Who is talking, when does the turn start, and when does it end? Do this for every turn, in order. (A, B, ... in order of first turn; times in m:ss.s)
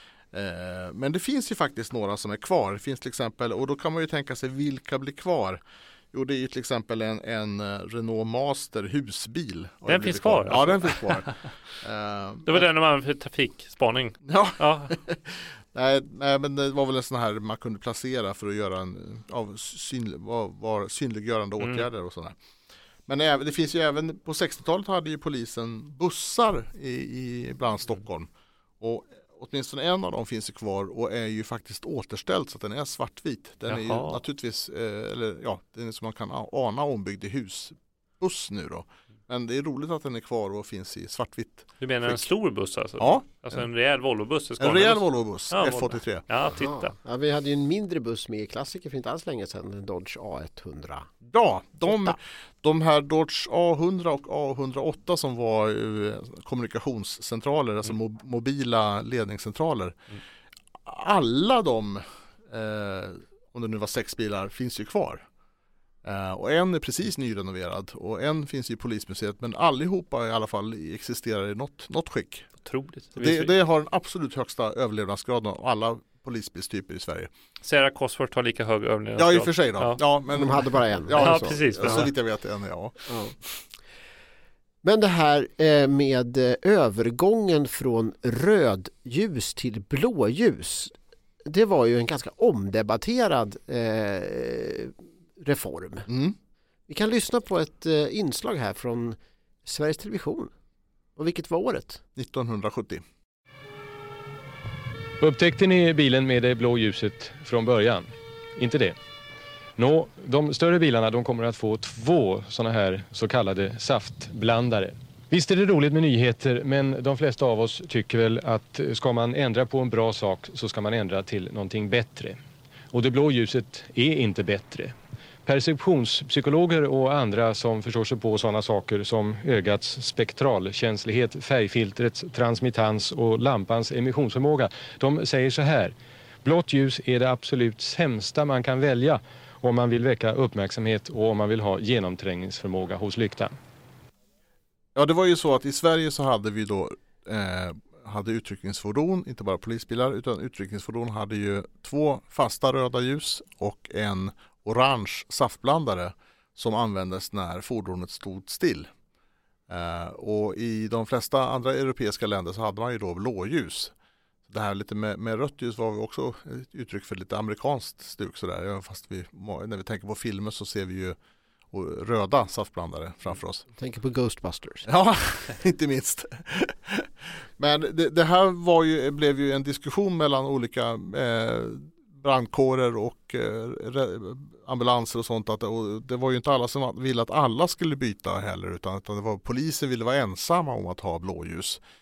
0:00.3-0:05.6 A
0:06.1-0:12.6 A
0:09.9-0:11.3 B
0:12.5-0:14.9 B
0:14.2-0:22.4 A
0:21.6-0:21.8 B
0:23.1-0:28.3 A
0:28.8-0:42.2 A
0:33.7-0:34.2 B
0:41.8-0:46.9 B
0:43.0-0:43.6 A
0:44.6-0:46.3 A
0:46.6-0:51.1 C
0:51.2-1:00.0 A
0:51.9-0:52.1 C
1:00.8-1:05.2 A
1:06.0-1:12.5 A
1:12.6-1:13.5 B
1:13.2-1:17.3 A
1:17.6-1:20.0 B
1:19.2-1:23.6 A
1:20.3-1:21.7 C
1:21.1-1:22.1 B
1:23.1-1:23.3 C
1:24.8-1:30.9 C
1:31.4-1:36.1 C
1:36.1-1:36.4 A
1:36.9-1:40.5 C
1:41.2-1:42.0 C
1:42.1-1:43.0 A
1:45.2-1:49.0 D
1:49.8-2:02.4 D
2:02.9-2:04.9 D
2:05.4-2:23.6 D
2:24.9-2:38.9 A
2:39.7-2:43.9 A
2:44.5-2:51.2 A
2:51.7-2:53.6 A
2:53.8-2:54.9 C
2:54.8-3:11.8 A